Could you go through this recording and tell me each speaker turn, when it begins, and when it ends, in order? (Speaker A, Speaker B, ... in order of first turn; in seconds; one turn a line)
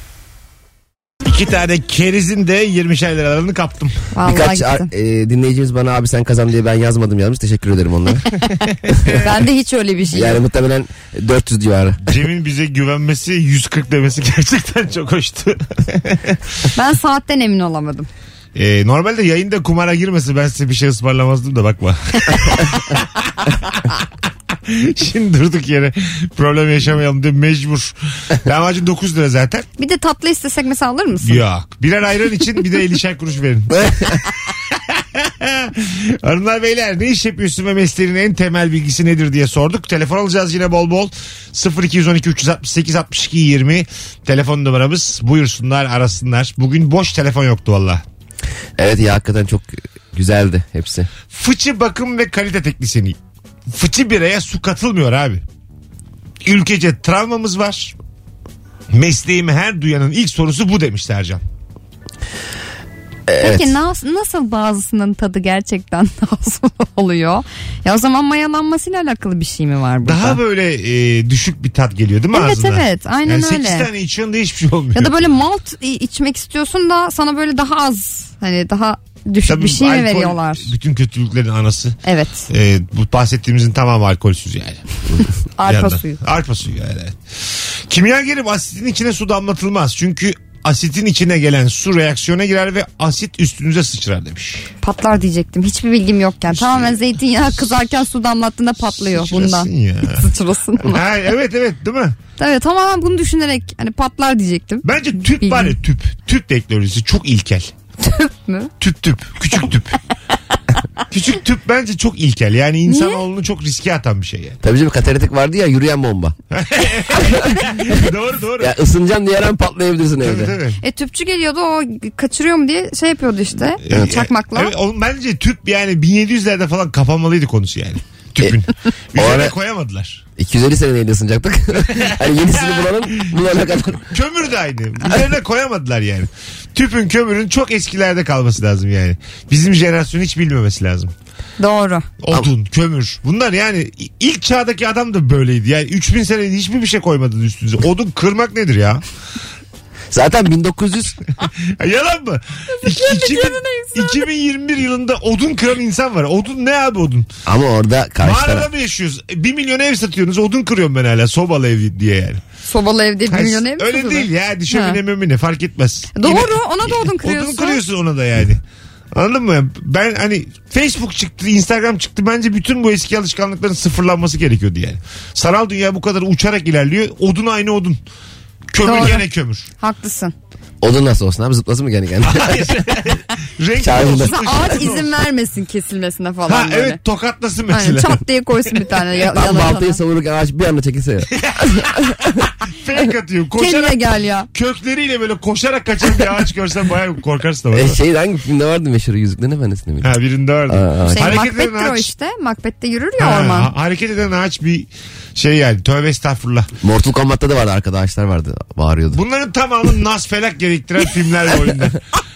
Speaker A: 1.2-4.0
Speaker B: 4.1-4.9
Speaker C: 4.2-8.3
Speaker A: 8.9-9.3
Speaker B: 9.1-10.4
Speaker C: 10.1-12.1
Speaker A: 12.0-16.4
Speaker B: 16.7-18.1
Speaker A: 18.5-29.6
Speaker B: 29.8-31.4
Speaker A: 31.2-48.0
Speaker C: 48.8-51.1
Speaker A: 51.3-53.2
Speaker A: 53.7-55.4
Speaker A: 56.4-57.9
Speaker A: 58.9-61.4
Speaker C: 63.3-63.8
Speaker B: 63.4-70.4
Speaker A: 70.0-75.3
Speaker B: 72.3-73.9
Speaker B: 74.9-80.7
Speaker A: 79.5-82.0
Speaker B: 82.0-82.5
Speaker A: 82.5-94.7
Speaker B: 85.6-86.2
Speaker B: 94.8-101.0
Speaker A: 96.5-96.9
Speaker A: 99.0-100.3
Speaker A: 100.8-102.2
Speaker B: 102.4-105.7
Speaker A: 104.8-107.7
Speaker B: 108.0-108.7
Speaker A: 108.8-110.0
Speaker A: 111.1-114.6
Speaker B: 112.9-113.2
Speaker C: 114.6-116.3
Speaker A: 116.5-118.7
Speaker C: 117.2-118.0
Speaker C: 118.6-120.6
Speaker A: 120.2-120.8
Speaker B: 120.8-124.7
Speaker A: 123.8-130.2
Speaker C: 129.2-129.5
Speaker C: 130.4-134.1
Speaker A: 131.9-141.1
Speaker B: 141.6-142.1
Speaker A: 142.2-149.0
Speaker C: 150.1-151.2
Speaker A: 151.4-157.3
Speaker B: 152.7-154.3
Speaker C: 157.4-158.7
Speaker A: 158.2-162.4
Speaker B: 162.7-165.0
Speaker A: 163.3-178.0
Speaker B: 166.1-167.8
Speaker A: 178.7-179.7
Speaker B: 178.8-179.2
Speaker B: 179.8-180.3
Speaker C: 180.8-182.7
Speaker A: 182.2-185.1
Speaker C: 183.8-184.4
Speaker B: 184.2-187.0
Speaker A: 186.5-188.2
Speaker B: 187.7-190.0
Speaker C: 189.3-192.4
Speaker A: 191.3-194.0
Speaker B: 193.6-194.5
Speaker A: 194.5-198.0
Speaker C: 197.7-200.1
Speaker A: 200.0-202.1
Speaker C: 200.7-201.4
Speaker B: 201.1-203.7
Speaker A: 203.2-206.7
Speaker C: 206.8-209.2
Speaker A: 209.1-212.0